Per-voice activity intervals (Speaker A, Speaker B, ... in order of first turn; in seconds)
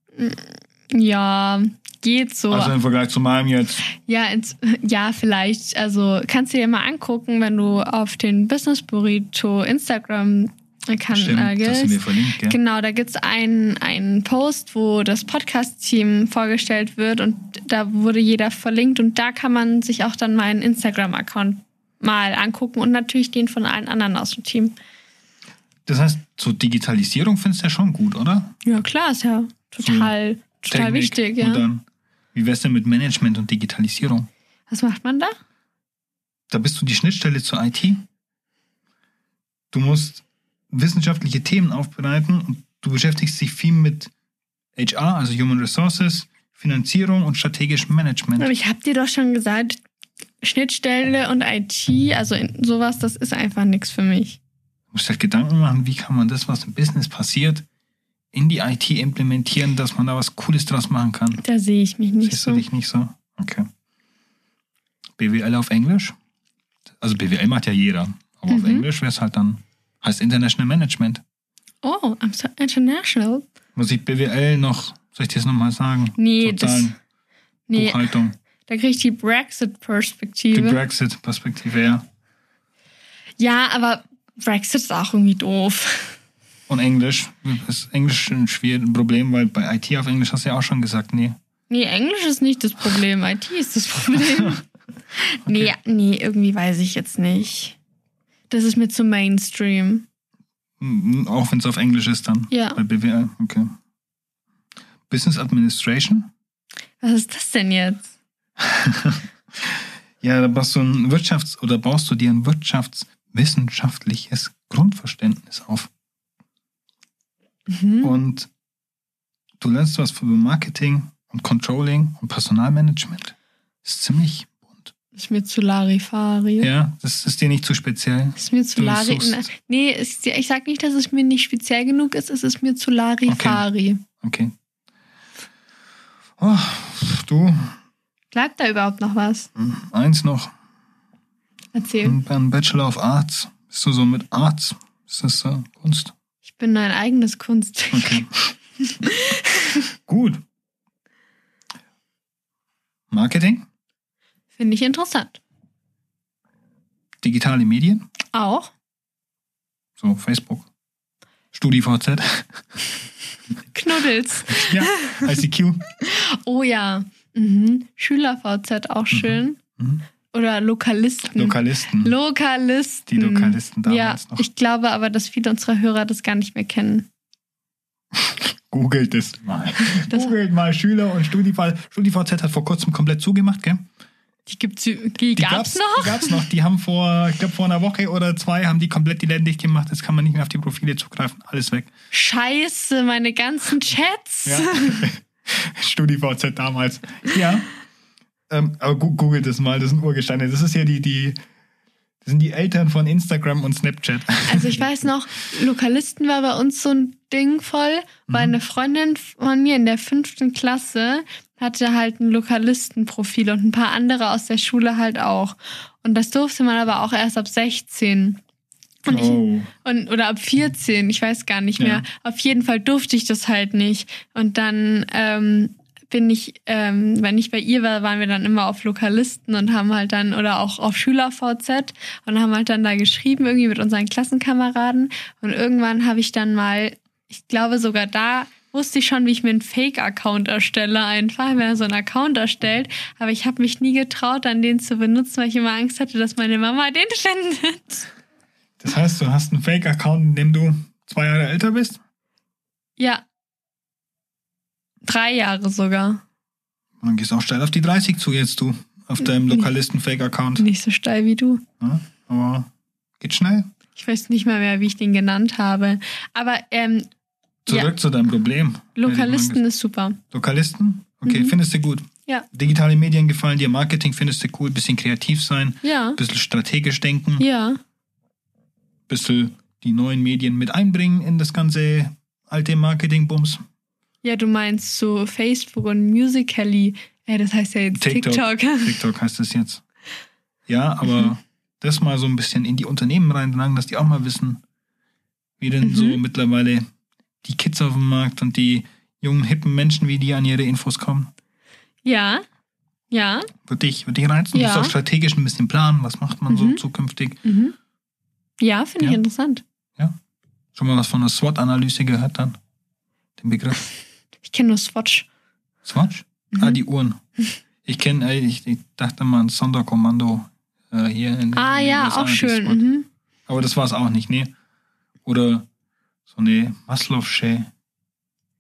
Speaker A: 0.2-2.8, 3.9-24.8, 28.6-31.6, 34.7-35.3, 48.4-49.8, 50.4-54.4, 61.4-62.6, 68.5-68.9, 71.8-73.5, 76.2-77.0, 77.7-78.1, 78.7-80.8, 83.4-86.2, 91.7-94.6, 95.2-97.8, 98.5-100.1, 102.5-102.8, 107.0-108.1, 117.7-118.2, 125.2-126.7, 128.4-134.0, 138.3-139.5, 141.7-142.2, 146.5-148.2, 148.8-149.9, 154.6-155.4, 158.3-158.7, 163.7-165.3, 166.0-169.6, 170.3-177.1, 180.1-180.4, 184.5-186.4, 192.1-195.1, 204.5-218.4, 219.0-248.1, 253.0-253.2, 255.0-256.2, 259.3-259.7, 260.6-261.6, 264.0-267.1, 267.7-267.9, 269.0-270.2, 271.3-271.5, 275.8-276.2, 277.4-277.8, 284.2-289.0, 295.8-296.2, 302.1-302.4, 303.1-303.5, 304.5-304.9, 306.5-306.8, 307.4-307.8, 308.6-309.6, 314.4-315.3, 316.5-316.8, 321.6-323.1
Speaker B: 2.5-3.8, 11.1-12.6, 25.9-28.6, 29.8-30.1, 30.7-34.3, 36.5-38.0, 39.7-44.1, 44.8-48.5, 54.9-57.6, 58.3-61.4, 62.2-63.7, 65.2-66.2, 67.0-71.2, 73.8-77.0, 77.8-78.3, 80.5-82.0, 86.7-91.4, 95.5-95.7, 100.8-103.7, 105.1-106.3, 108.6-115.9, 118.0-118.5, 119.6-124.9, 126.6-129.4, 133.3-133.7, 134.2-134.5, 136.4-137.8, 139.6-140.5, 142.0-146.1, 147.9-148.5, 150.1-150.4, 153.1-153.7, 157.2-158.1, 160.0-160.7, 161.5-162.6, 164.5-165.8, 169.1-170.1, 171.3-172.2, 173.1-174.4, 178.1-183.8, 185.4-191.9, 194.4-197.7, 198.5-201.4, 202.2-204.9, 208.3-208.6, 219.1-219.7, 221.8-222.1, 248.8-252.0, 257.0-260.7, 261.8-263.7, 267.7-269.6, 270.3-277.4, 279.1-283.6, 287.9-289.8, 290.7-294.6, 295.6-296.9, 297.4-301.3, 303.6-307.4, 310.8-312.6, 313.4-313.9, 315.9-317.2, 317.9-322.9, 323.5-324.5, 325.2-325.7, 326.3-327.7